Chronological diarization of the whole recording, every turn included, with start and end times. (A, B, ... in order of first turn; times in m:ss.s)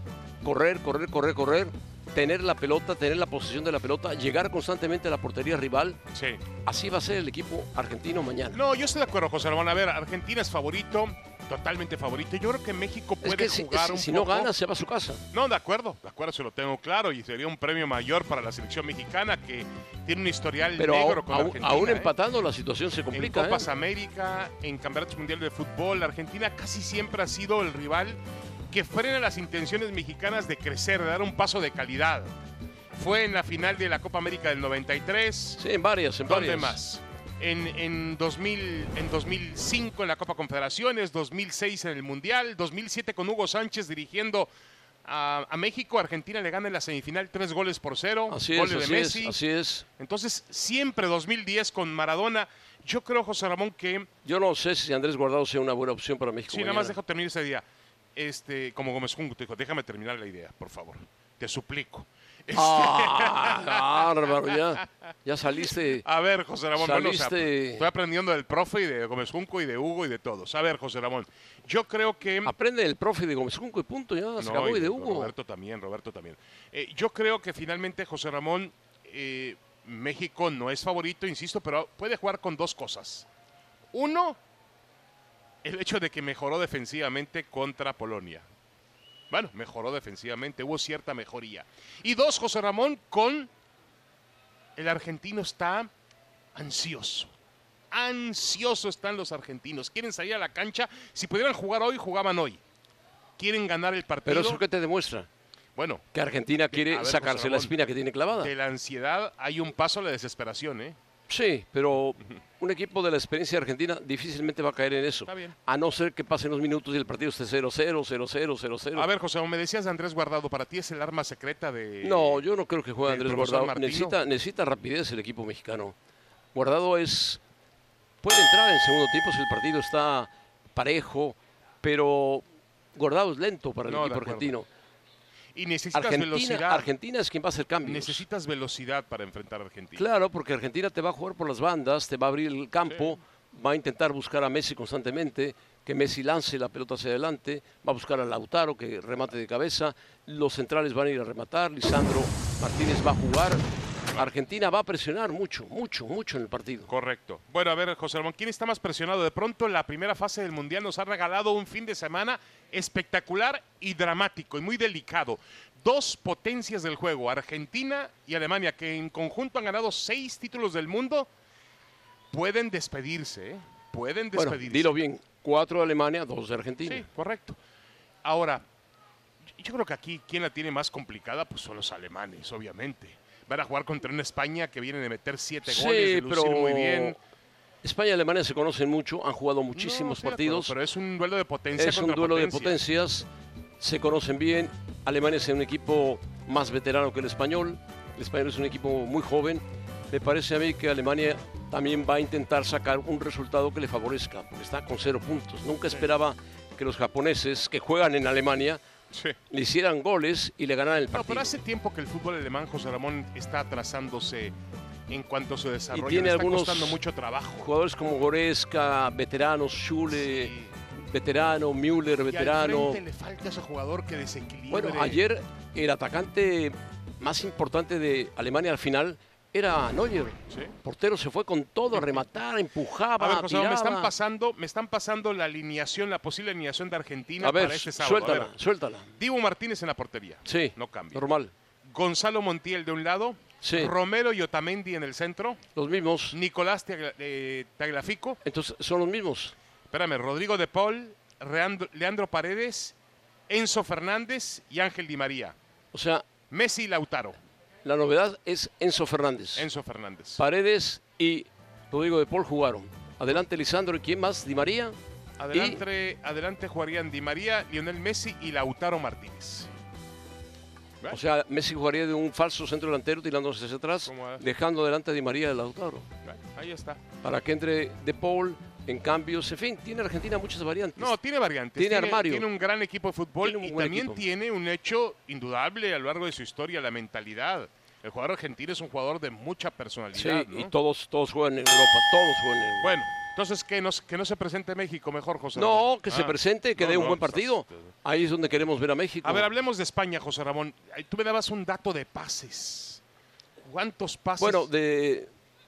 0:00.4-0:06.0 A
0:06.1-0:06.4 B
0:06.6-0:08.6 A
0:08.5-0:14.5 B
0:13.2-0:15.2 A
0:15.3-0:22.1 B
0:20.8-0:23.7 A
0:23.1-0:28.2 B
0:28.7-0:32.3 B
0:32.9-0:35.6 B
0:35.6-0:36.8 A
0:36.3-0:44.5 B
0:45.0-0:49.4 B
0:48.3-0:49.9 A
0:50.0-0:54.1 B
0:54.2-0:57.0 A
0:56.5-0:57.6 B
0:58.2-1:04.6 B
1:02.5-1:06.0 A
1:06.0-1:12.5 B
1:06.8-1:07.9 A
1:12.4-1:15.3 A
1:14.4-1:23.3 B
1:23.9-1:24.4 B
1:25.6-1:28.5 B
1:29.3-1:33.5 B
1:34.8-1:35.9 B
1:36.6-1:37.3 B
1:37.9-1:42.6 B
1:43.4-1:44.6 B
1:44.3-1:45.3 A
1:45.8-1:46.0 B
1:46.1-1:48.5 A
1:46.7-1:47.8 B
1:48.4-1:51.0 B
1:51.3-1:59.1 A
1:55.3-1:55.6 B
1:59.0-2:02.4 B
2:02.0-2:06.0 A
2:03.0-2:04.2 B
2:06.5-2:07.4 A
2:08.2-2:12.4 A
2:13.0-2:14.7 A
2:13.9-2:14.5 B
2:15.6-2:16.9 B
2:15.9-2:18.2 A
2:17.8-2:20.0 B
2:20.0-2:36.9 A
2:36.9-2:51.3 B
2:52.3-2:55.0 B
2:54.4-2:57.1 A
2:56.8-2:57.6 B
2:58.2-2:58.6 B
2:59.6-3:07.2 B
3:05.7-3:07.2 A
3:07.8-3:10.8 A
3:09.8-3:12.8 B
3:11.8-3:13.3 A
3:13.8-3:28.8 A
3:29.1-3:29.4 B
3:29.5-3:31.5 A
3:31.1-3:34.5 B
3:35.1-3:37.7 B
3:35.9-3:37.0 A
3:37.6-3:43.0 A
3:40.1-3:40.7 B
3:42.3-3:45.2 B
3:44.7-3:54.1 A
3:53.2-3:58.5 B
3:57.4-3:59.1 A
3:59.2-4:01.2 B
4:00.5-4:01.5 A
4:01.8-4:05.6 B
4:03.6-4:03.9 A
4:05.8-4:06.4 A
4:06.3-4:08.4 B
4:08.4-4:09.6 A
4:09.9-4:13.0 B
4:13.5-4:15.6 B
4:15.9-4:16.3 A
4:16.5-4:17.4 B
4:17.8-4:19.7 A
4:19.6-4:20.4 B
4:20.4-4:25.0 A
4:25.4-4:29.7 B
4:25.5-4:25.8 A
4:31.1-4:36.1 A
4:34.1-4:34.4 B
4:36.2-4:37.0 B
4:37.2-4:41.1 A
4:41.0-4:50.7 B
4:41.8-4:42.5 A
4:43.4-4:44.2 A
4:50.2-4:53.0 A
4:52.8-4:57.8 B
4:55.6-4:59.5 A
4:59.2-5:03.0 B
5:03.6-5:04.7 B
5:04.4-5:05.3 A